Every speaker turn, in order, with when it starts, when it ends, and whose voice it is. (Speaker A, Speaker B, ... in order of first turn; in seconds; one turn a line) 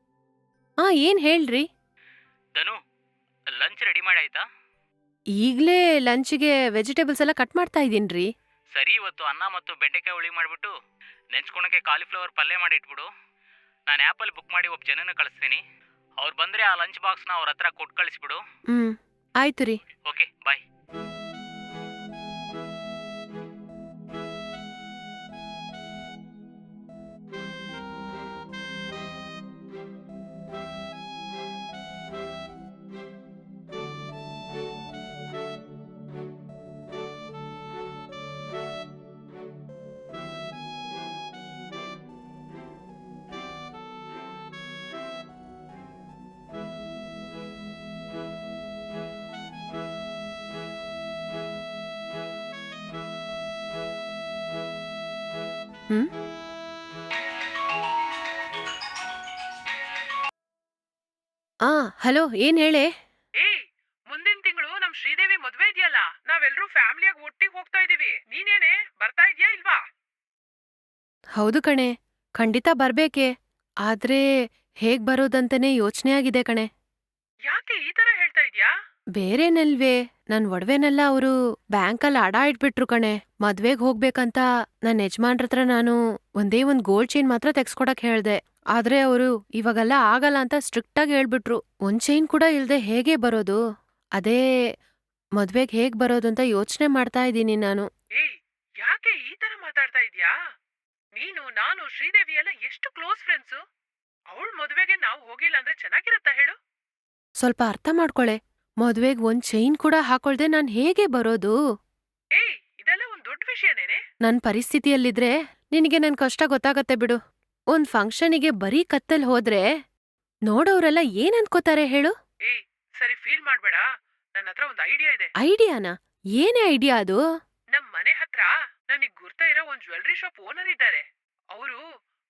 Speaker A: 0.8-1.6
Speaker B: 3.5-4.4
Speaker A: 5.4-8.3
Speaker B: 8.7-10.7
Speaker B: 11.3-13.1
Speaker B: 13.9-15.6
Speaker B: 16.2-18.4
Speaker A: 18.7-19.8
Speaker B: 20.1-20.6
Speaker A: 61.6-62.9
Speaker C: 63.4-69.8
Speaker A: 71.4-73.3
Speaker A: 73.8-74.2
Speaker A: 74.8-76.7
Speaker C: 77.5-78.7
Speaker A: 79.2-93.6
Speaker A: 95.4-97.8
Speaker C: 98.1-100.3
Speaker C: 101.1-103.6
Speaker C: 104.3-106.5
Speaker A: 107.4-111.5
Speaker C: 112.3-114.0
Speaker A: 114.2-117.2
Speaker A: 117.7-119.6
Speaker A: 120.5-122.1
Speaker C: 122.4-123.8
Speaker C: 124.4-125.3
Speaker A: 125.4-127.2
Speaker C: 127.7-131.0
Speaker C: 131.5-131.8